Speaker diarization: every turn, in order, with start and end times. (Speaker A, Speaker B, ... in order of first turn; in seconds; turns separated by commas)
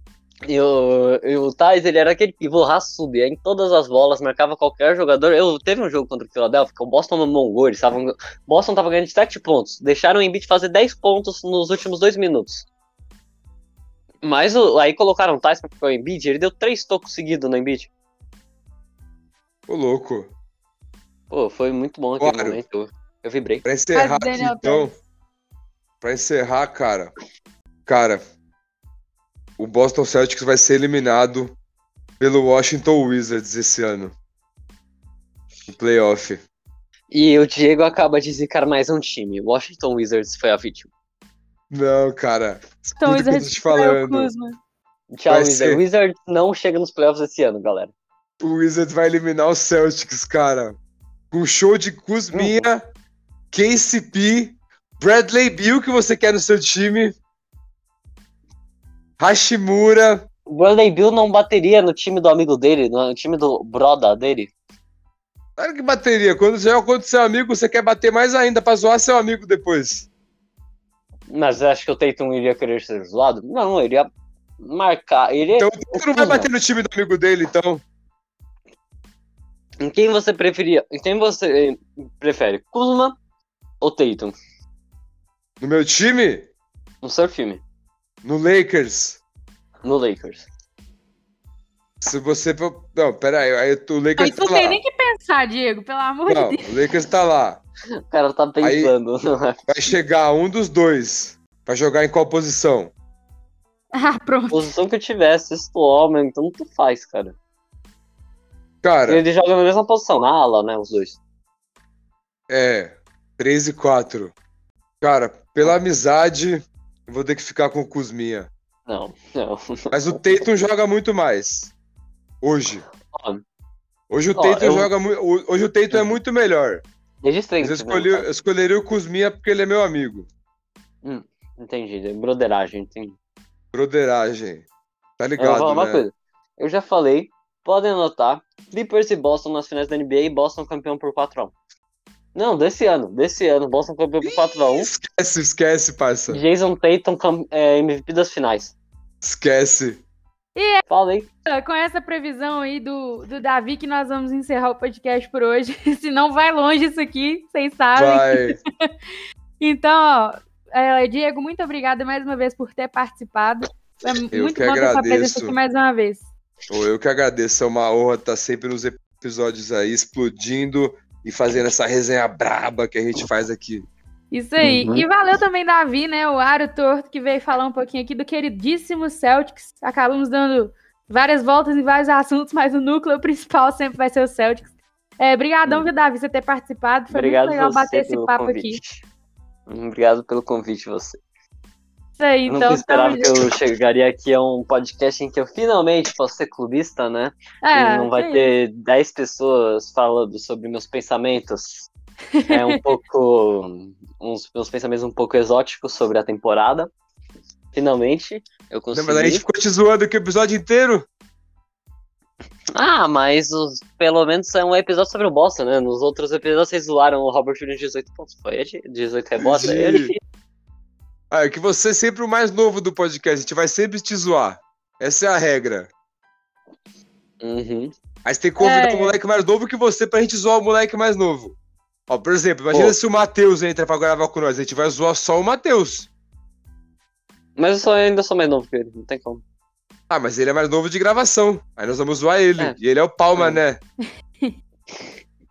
Speaker A: 0.5-12.7, Speaker A: 14.2-17.9, Speaker B: 19.7-20.3, Speaker A: 21.3-23.6, Speaker B: 22.2-22.6, Speaker B: 23.6-24.9, Speaker C: 23.9-25.0, Speaker B: 26.0-27.1, Speaker B: 27.9-28.2, Speaker B: 29.6-31.5, Speaker B: 32.2-34.1, Speaker B: 35.7-36.4, Speaker A: 37.1-40.9, Speaker B: 41.7-44.3, Speaker C: 43.0-44.6, Speaker A: 45.1-47.9, Speaker B: 45.3-45.8, Speaker B: 48.4-50.8, Speaker B: 51.3-52.8, Speaker A: 52.3-52.6, Speaker B: 53.5-57.1, Speaker B: 59.2-60.2, Speaker A: 60.5-64.5, Speaker B: 65.6-70.0, Speaker A: 71.3-74.1, Speaker A: 74.6-76.5, Speaker B: 75.5-77.8, Speaker A: 79.8-83.2, Speaker A: 83.8-84.3, Speaker B: 85.6-86.5, Speaker A: 87.0-87.6, Speaker B: 88.2-89.2, Speaker A: 89.8-90.5, Speaker B: 92.0-94.8, Speaker C: 94.2-96.8, Speaker B: 96.2-97.6, Speaker A: 98.1-99.6, Speaker B: 98.6-98.9, Speaker B: 99.7-102.9, Speaker C: 103.9-104.7, Speaker A: 104.5-107.3, Speaker B: 108.8-109.2, Speaker A: 109.1-111.2, Speaker B: 112.5-114.3, Speaker B: 115.0-118.5, Speaker A: 118.9-119.9, Speaker B: 119.9-121.7, Speaker B: 122.4-122.8, Speaker A: 123.1-123.4, Speaker B: 124.1-126.8, Speaker A: 124.3-124.9, Speaker A: 127.2-128.3, Speaker B: 127.6-130.3, Speaker A: 131.0-133.2, Speaker B: 133.7-134.7, Speaker B: 135.2-136.0, Speaker A: 135.4-141.5, Speaker A: 142.3-144.9, Speaker B: 144.2-146.4, Speaker A: 146.3-148.7, Speaker B: 149.2-150.0, Speaker C: 150.6-150.8, Speaker A: 150.9-151.3, Speaker C: 151.4-158.6, Speaker B: 157.9-158.6, Speaker C: 159.6-166.2, Speaker B: 164.3-165.6, Speaker B: 166.7-173.9, Speaker C: 174.3-188.8, Speaker A: 174.6-175.0, Speaker A: 187.1-189.0, Speaker A: 189.7-191.2, Speaker C: 192.2-193.5, Speaker A: 192.5-201.9, Speaker C: 197.6-198.5, Speaker C: 202.3-202.8, Speaker A: 202.5-206.9, Speaker A: 207.7-209.4, Speaker B: 208.9-211.0, Speaker A: 212.7-220.2, Speaker B: 219.4-220.1, Speaker B: 221.3-225.9, Speaker A: 227.4-227.9, Speaker B: 228.2-231.5, Speaker C: 228.6-229.2, Speaker B: 232.1-236.1, Speaker A: 237.6-239.4, Speaker B: 240.1-243.8, Speaker A: 243.3-243.6